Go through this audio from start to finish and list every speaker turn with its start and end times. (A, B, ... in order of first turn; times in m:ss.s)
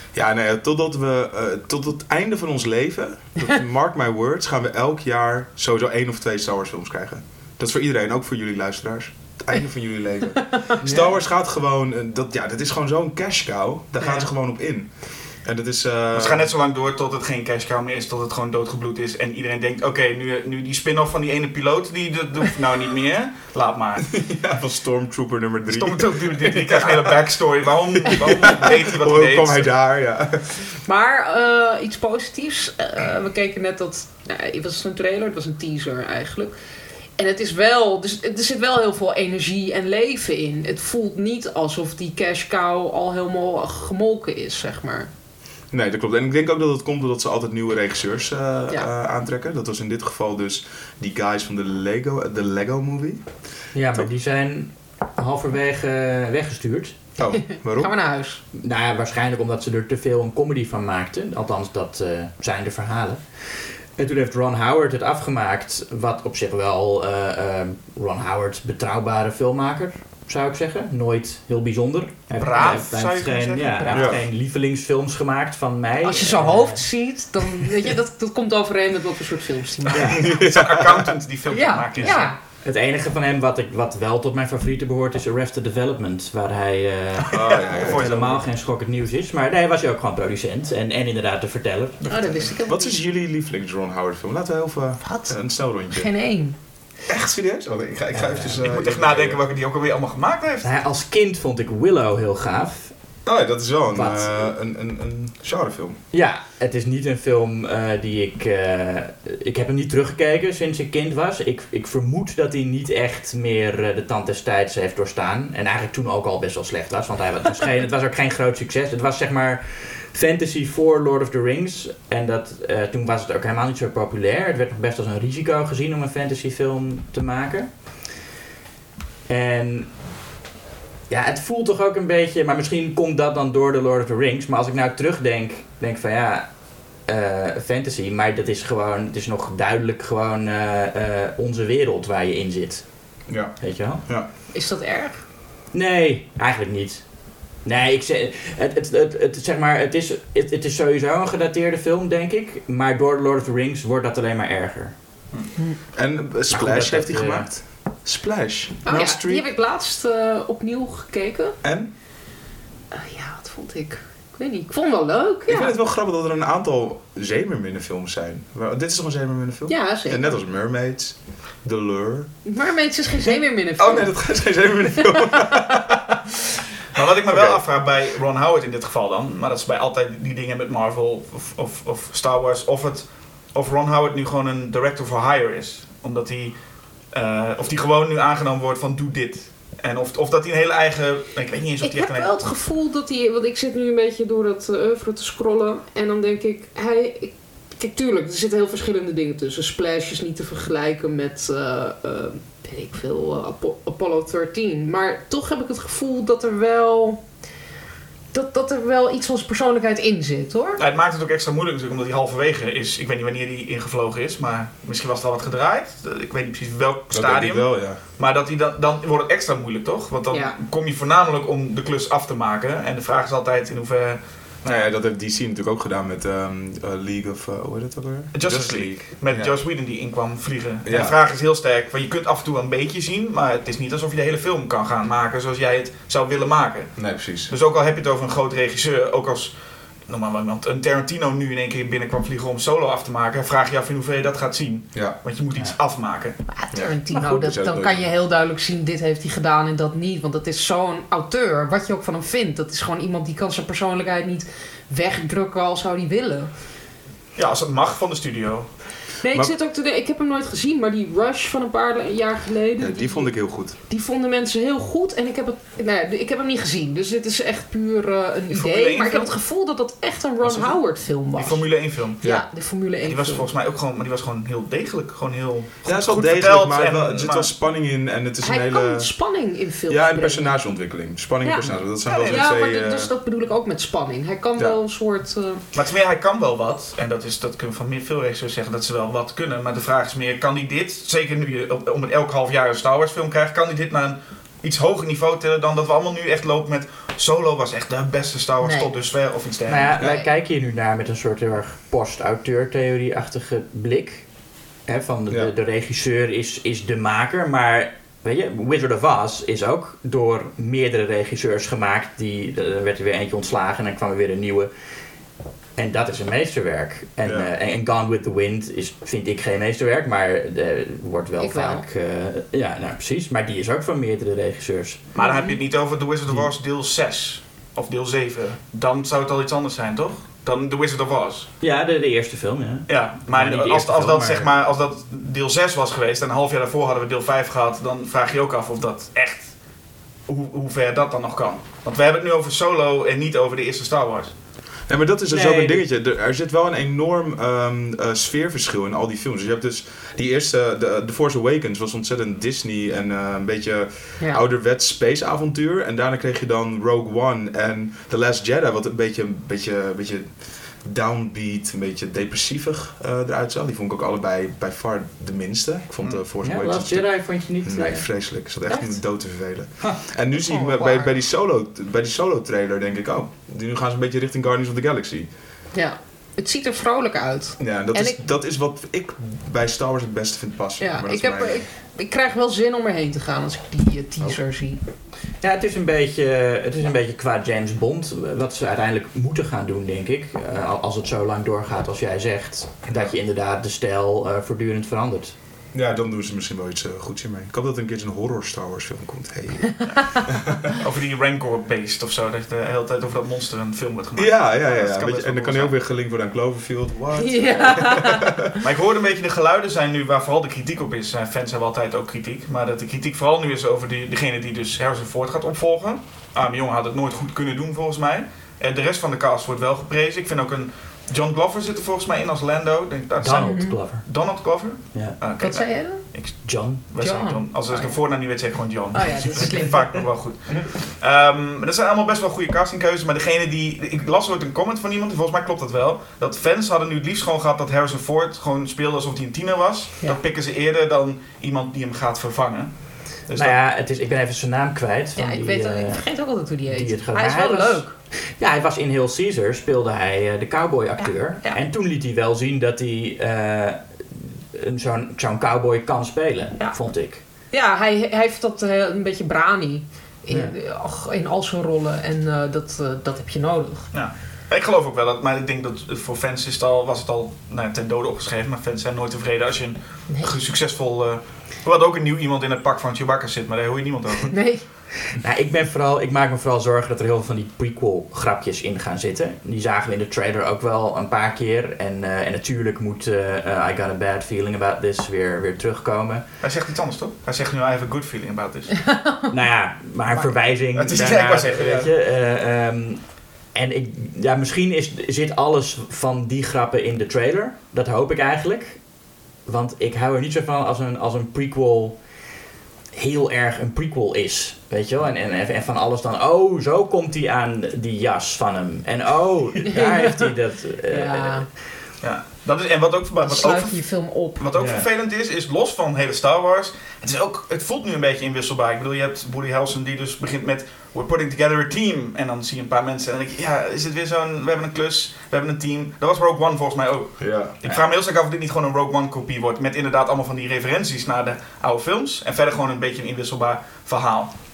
0:00.1-0:16.5 A
0:16.1-0:24.1 B
0:24.0-0:27.3 A
0:25.7-0:29.7 B
0:28.1-0:30.6 A
0:30.8-0:36.6 C
0:37.2-0:45.1 C
0:45.7-0:53.3 A
0:53.7-0:57.0 D
0:57.2-0:57.9 A
0:57.6-0:58.4 C
0:58.5-1:16.8 D
1:12.4-1:14.2 B
1:13.9-1:14.2 A
1:16.0-1:20.3 C
1:19.9-1:22.3 B
1:20.0-1:21.2 A
1:21.5-1:22.4 C
1:22.0-1:32.4 D
1:27.3-1:28.1 A
1:27.4-1:28.4 B
1:32.1-1:33.1 C
1:32.6-1:36.1 A
1:35.0-1:35.4 C
1:35.9-1:36.6 C
1:37.1-1:39.4 A
1:38.1-1:38.6 D
1:38.6-1:40.7 B
1:40.6-1:42.9 D
1:43.2-1:46.0 A
1:43.9-1:44.3 D
1:46.1-2:08.1 D
2:09.3-2:10.0 D
2:11.1-2:24.0 D
2:23.3-2:24.3 A
2:24.5-2:25.2 C
2:25.7-2:34.9 D
2:35.9-2:39.4 A
2:36.5-2:37.6 D
2:38.8-2:41.6 C
2:41.6-2:41.9 A
2:42.9-2:45.7 C
2:45.5-2:52.3 A
2:49.7-2:50.4 C
2:52.4-2:54.1 C
2:53.8-2:56.0 A
2:56.9-3:12.3 B
2:57.3-2:57.6 A
3:11.8-3:27.2 C
3:28.3-3:30.8 C
3:30.8-3:44.9 B
3:37.1-3:38.0 A
3:40.3-3:40.6 C
3:44.6-3:49.6 A
3:48.3-4:06.4 B
3:50.8-3:51.2 A
3:57.0-3:57.5 A
4:06.5-4:16.5 C
4:06.7-4:08.1 A
4:17.4-4:18.7 B
4:19.2-4:33.5 C
4:19.3-4:19.5 A
4:22.8-4:23.8 A
4:28.5-4:29.4 B
4:30.4-4:32.2 B
4:32.2-4:32.4 A
4:33.0-4:37.5 B
4:35.8-4:39.1 A
4:38.4-4:40.8 C
4:39.9-4:43.1 A
4:41.4-4:45.6 C
4:42.0-4:42.5 B
4:45.7-5:00.0 B
4:58.6-4:58.9 C
4:59.7-5:04.3 D
5:00.0-5:00.2 C
5:04.8-5:14.7 D
5:15.8-5:25.1 D
5:17.2-5:17.5 A
5:21.4-5:21.8 C
5:25.1-5:31.5 B
5:25.2-5:25.6 C
5:31.6-5:34.5 D
5:32.9-5:39.6 B
5:40.3-5:44.4 B
5:44.9-6:15.3 A
5:45.3-5:45.8 D
6:06.4-6:09.0 D
6:10.3-6:11.1 C
6:15.7-6:18.3 C
6:17.6-6:21.6 A
6:20.8-6:24.8 C
6:25.4-6:35.4 D
6:35.7-6:40.3 A
6:40.7-6:45.8 B
6:44.2-6:48.5 A
6:47.2-6:48.4 C
6:48.6-7:23.6 B
7:03.2-7:04.1 D
7:03.5-7:03.8 C
7:04.9-7:05.2 D
7:05.4-7:06.1 C
7:06.4-7:06.8 D
7:07.0-7:10.2 C
7:23.3-7:37.2 D
7:25.2-7:27.9 C
7:31.0-7:31.6 C
7:37.5-7:43.9 C
7:40.3-7:40.5 D
7:43.9-7:54.5 B
7:54.3-7:54.6 C
7:55.1-8:06.3 D
8:06.4-8:08.7 B
8:08.9-8:09.2 C
8:09.3-8:22.3 D
8:10.7-8:11.9 B
8:22.9-8:31.6 D
8:29.7-8:31.5 C
8:32.0-8:54.3 B
8:33.2-8:34.5 C
8:34.6-8:34.8 D
8:47.2-8:47.6 A